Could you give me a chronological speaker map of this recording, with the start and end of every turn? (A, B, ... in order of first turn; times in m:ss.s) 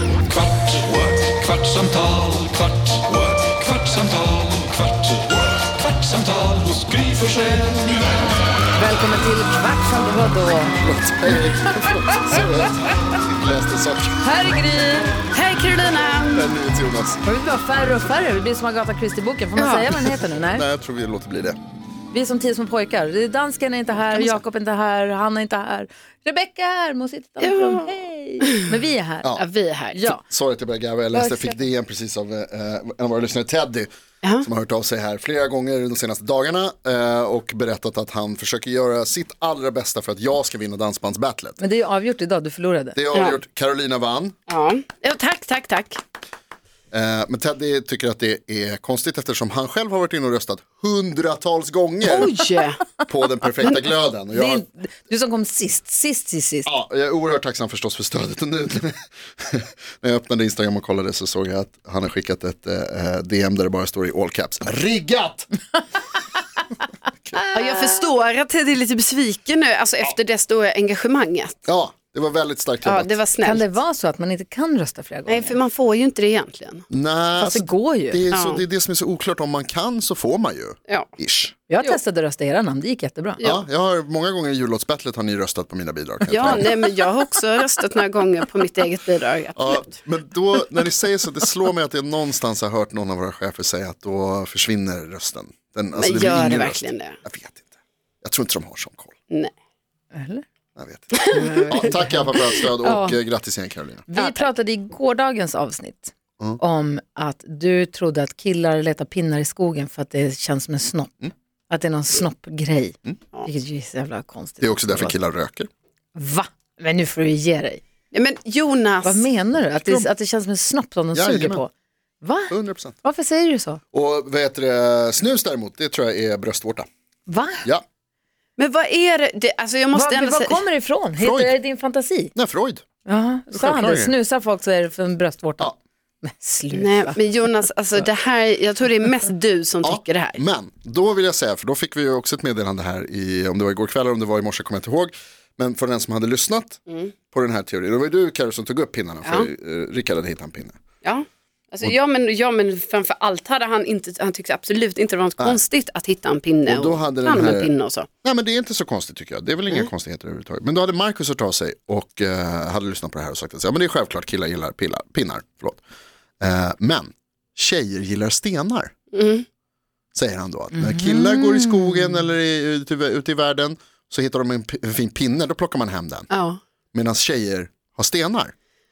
0:00.3-0:07.9 A
0:08.8-0:10.8 B
0:10.7-0:14.2 C
0:11.3-0:12.4 B
0:14.2-0:15.2 B
0:15.3-0:16.5 D
0:16.3-0:17.2 C
0:17.2-0:20.7 B
0:19.6-0:19.9 D
0:20.5-0:21.6 C
0:22.1-0:29.4 B
0:24.1-0:24.4 D
0:27.4-0:28.6 D
0:29.3-0:30.0 D
0:29.9-0:30.2 B
0:30.0-0:41.6 C
0:31.1-0:31.6 B
0:41.6-0:43.0 B
0:42.9-0:44.4 C
0:44.5-0:46.0 D
0:46.9-0:52.4 C
0:52.0-0:52.8 D
0:53.0-0:54.6 C
0:54.3-0:56.7 B
0:56.6-1:05.5 C
1:07.4-1:07.8 B
1:07.5-1:11.6 D
1:11.6-1:13.1 C
1:12.8-1:13.8 D
1:13.4-1:15.6 B
1:15.3-1:16.9 D
1:16.9-1:21.6 C
1:17.4-1:18.2 B
1:18.3-1:18.6 D
1:21.7-1:23.4 B
1:23.4-1:27.1 C
1:26.3-1:29.9 D
1:29.6-1:37.7 C
1:36.0-1:37.2 D
1:38.2-1:39.1 C
1:40.1-1:40.4 B
1:40.8-1:44.1 C
1:41.1-1:43.2 D
1:41.3-1:42.2 B
1:44.1-1:55.1 B
1:44.1-1:44.5 D
1:54.6-1:55.7 C
1:56.1-1:57.8 B
1:58.1-1:59.3 D
1:59.0-2:01.7 B
1:59.8-2:00.0 D
2:01.1-2:01.6 C
2:02.2-2:03.8 B
2:02.5-2:02.9 C
2:03.9-2:06.9 C
2:07.3-2:07.6 B
2:08.6-2:10.6 D
2:09.9-2:12.3 B
2:11.2-2:11.6 C
2:12.3-2:12.8 C
2:13.0-2:17.2 B
2:13.5-2:14.1 C
2:16.7-2:20.4 D
2:19.8-2:26.8 C
2:26.9-2:27.1 D
2:27.3-2:30.8 C
2:31.0-2:38.1 D
2:36.7-2:37.7 C
2:38.2-2:45.8 C
2:46.4-2:48.9 C
2:49.1-2:49.4 D
2:50.1-2:56.3 C
2:50.7-2:52.3 B
2:56.3-2:56.6 D
2:56.9-2:58.5 C